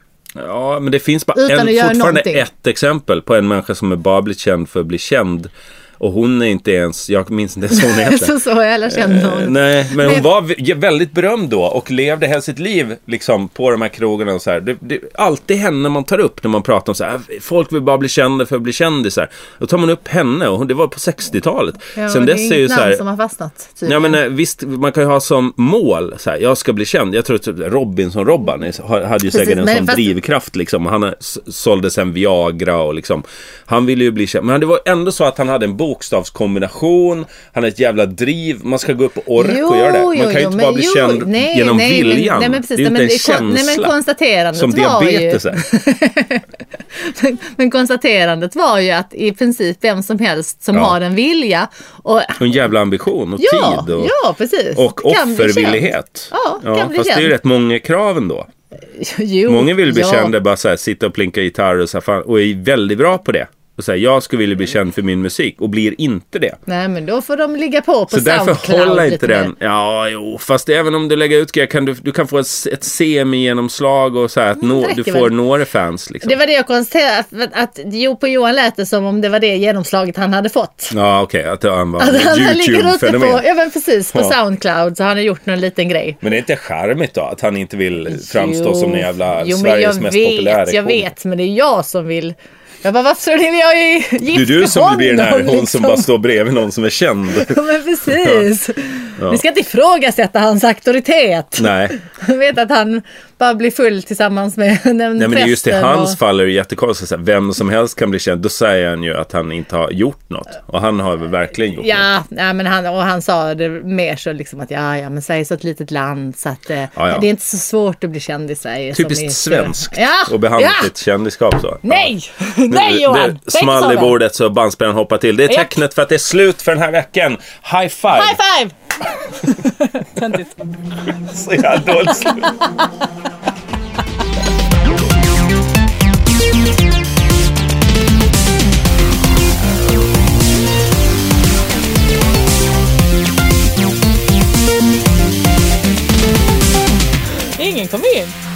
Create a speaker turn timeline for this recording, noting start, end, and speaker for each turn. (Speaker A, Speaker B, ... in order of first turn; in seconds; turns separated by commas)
Speaker A: 0.3-23.0, Speaker B: 1.3-2.5, Speaker B: 7.7-10.2, Speaker B: 21.9-24.2, Speaker A: 23.9-43.9, Speaker B: 29.3-30.1, Speaker B: 39.4-46.4, Speaker A: 44.5-45.6, Speaker B: 47.0-52.4, Speaker A: 52.4-54.1, Speaker B: 53.4-57.3, Speaker A: 54.8-58.5, Speaker B: 59.0-60.3, Speaker A: 59.5-66.6, Speaker B: 66.7-69.5, Speaker A: 68.1-76.4, Speaker B: 74.6-75.3, Speaker B: 76.2-80.9, Speaker A: 80.9-83.4, Speaker B: 82.0-86.2, Speaker A: 86.2-91.1, Speaker B: 88.1-96.1, Speaker A: 94.3-97.5, Speaker B: 97.3-106.2, Speaker A: 98.2-98.5, Speaker A: 101.6-102.0, Speaker A: 105.2-112.1, Speaker B: 111.8-120.9, Speaker A: 117.0-117.3, Speaker A: 118.9-122.1, Speaker B: 121.8-124.1, Speaker A: 122.7-128.4, Speaker B: 125.5-125.7, Speaker B: 128.1-128.7, Speaker B: 129.4-130.5, Speaker A: 131.0-132.7, Speaker B: 147.6-148.3